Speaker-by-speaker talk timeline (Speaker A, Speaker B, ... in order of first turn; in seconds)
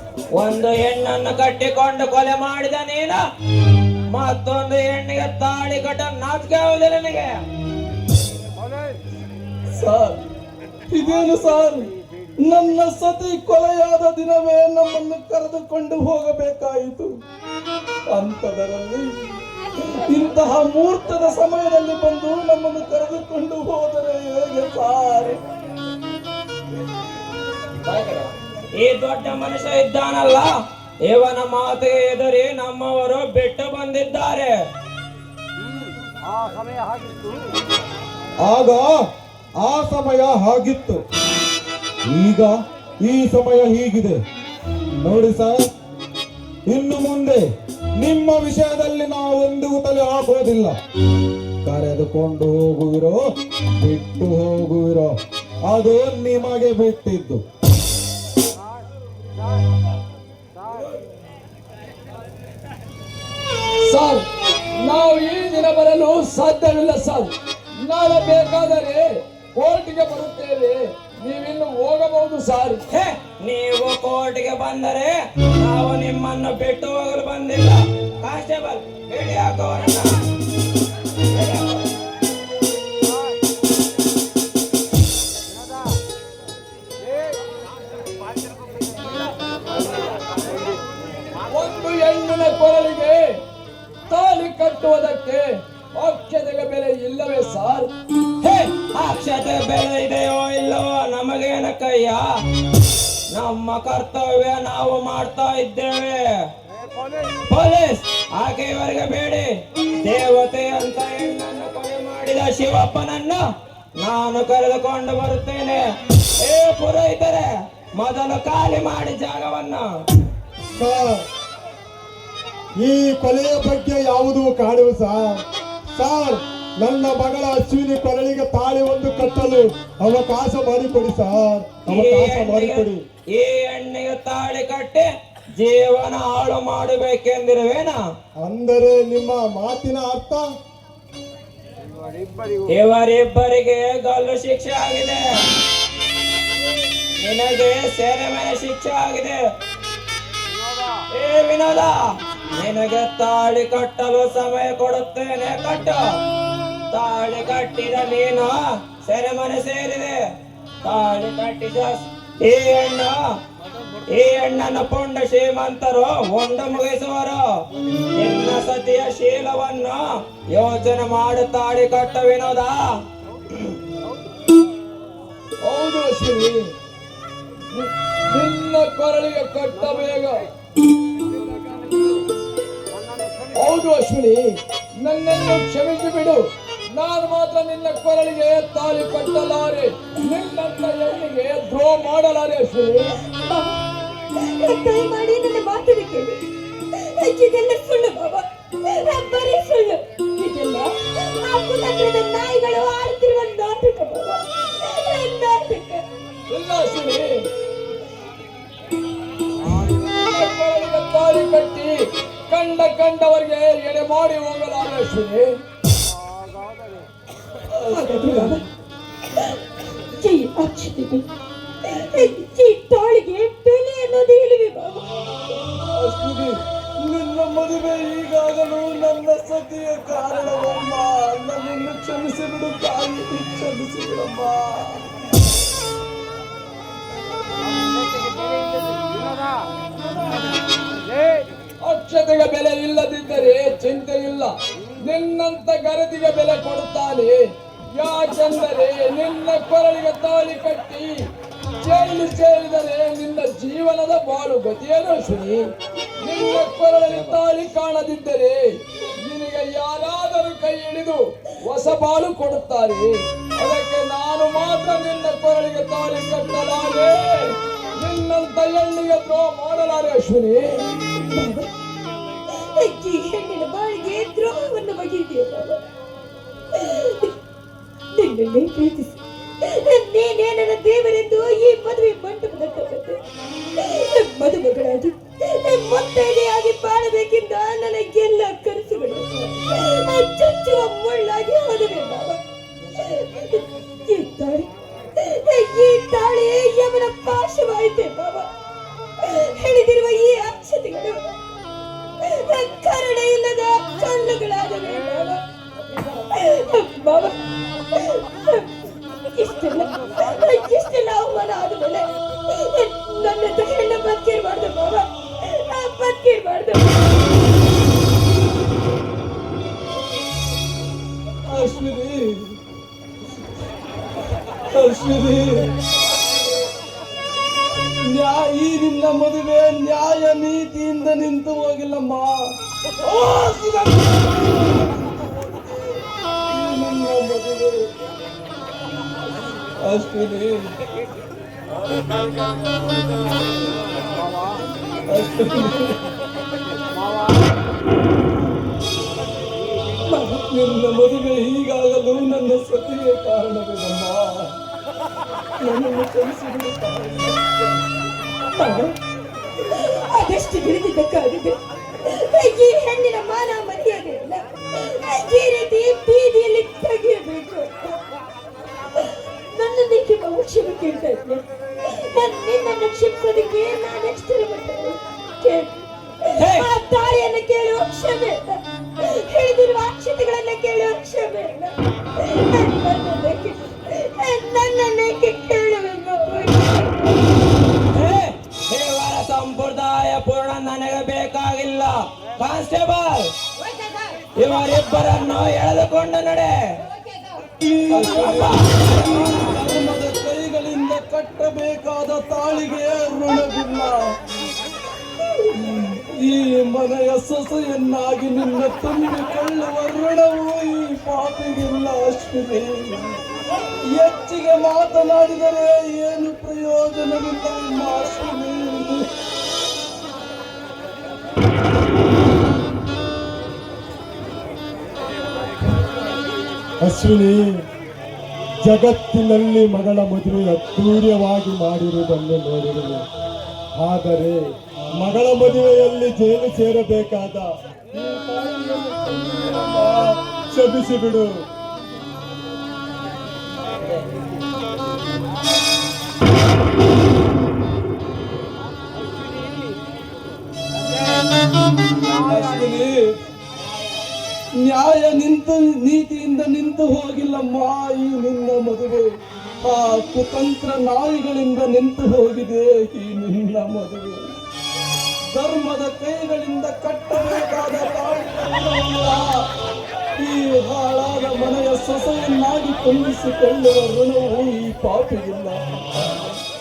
Speaker A: 0.3-3.2, 4.1-7.3, 27.8-28.2, 28.8-30.5, 31.1-34.5, 72.9-80.1, 81.2-81.6, 98.4-102.2, 103.3-106.3, 107.5-109.5, 110.0-113.4, 114.0-115.8, 116.4-119.8, 131.8-138.0, 142.7-145.2, 147.2-149.4, 151.1-151.9, 152.6-156.0, 156.9-160.2, 160.8-163.2, 164.1-167.4, 168.2-170.0, 170.5-172.8, 376.3-376.7, 387.9-393.3, 394.4-396.6, 397.9-399.5
Speaker B: 9.8-10.2, 10.9-11.9, 12.4-17.1, 18.1-19.1, 19.8-25.4, 63.8-64.2, 64.8-67.3, 67.8-72.8, 91.5-93.2, 94.1-97.9, 175.6-176.7, 177.8-180.4, 183.5-184.4, 185.0-186.4, 186.9-193.1, 206.5-207.3, 209.6-211.9, 212.5-215.5, 217.7-218.6, 225.9-235.0, 241.8-244.5, 245.0-247.4, 247.9-251.1, 251.8-255.6, 256.2-258.6, 259.2-263.0, 263.6-267.5, 268.0-270.7, 321.5-322.4, 324.7-325.7, 328.0-332.3, 333.0-334.6, 336.5-337.9, 339.8-340.6, 345.1-345.9, 350.0-354.4, 355.6-357.4, 397.6-404.1, 405.3-413.1, 413.8-419.1, 437.9-439.9, 452.2-453.0, 454.6-459.1, 459.6-464.3, 465.3-469.4, 470.2-475.6
Speaker C: 38.4-38.9, 39.6-41.0, 42.1-42.5, 43.0-44.2, 45.0-45.6, 46.7-47.4, 48.0-50.8, 51.6-53.2, 53.8-55.1, 55.7-57.4
Speaker D: 120.8-121.2, 122.8-125.4, 126.0-133.0, 138.4-140.4, 426.8-427.6, 428.6-433.0, 433.8-434.4, 435.0-437.4, 440.5-441.4
Speaker E: 193.5-193.7, 194.6-196.4, 197.1-206.0, 217.9-218.6, 220.2-221.2, 222.0-225.1, 271.3-271.7, 272.8-275.8, 278.1-279.1, 279.6-283.2, 283.8-292.4, 293.2-294.7, 295.2-298.5, 299.3-301.2, 302.3-305.4, 306.3-307.3, 309.4-312.1, 312.6-316.8, 358.5-358.9, 360.1-361.6, 362.1-364.4, 365.0-368.0, 369.5-375.7, 376.5-381.7, 382.2-387.2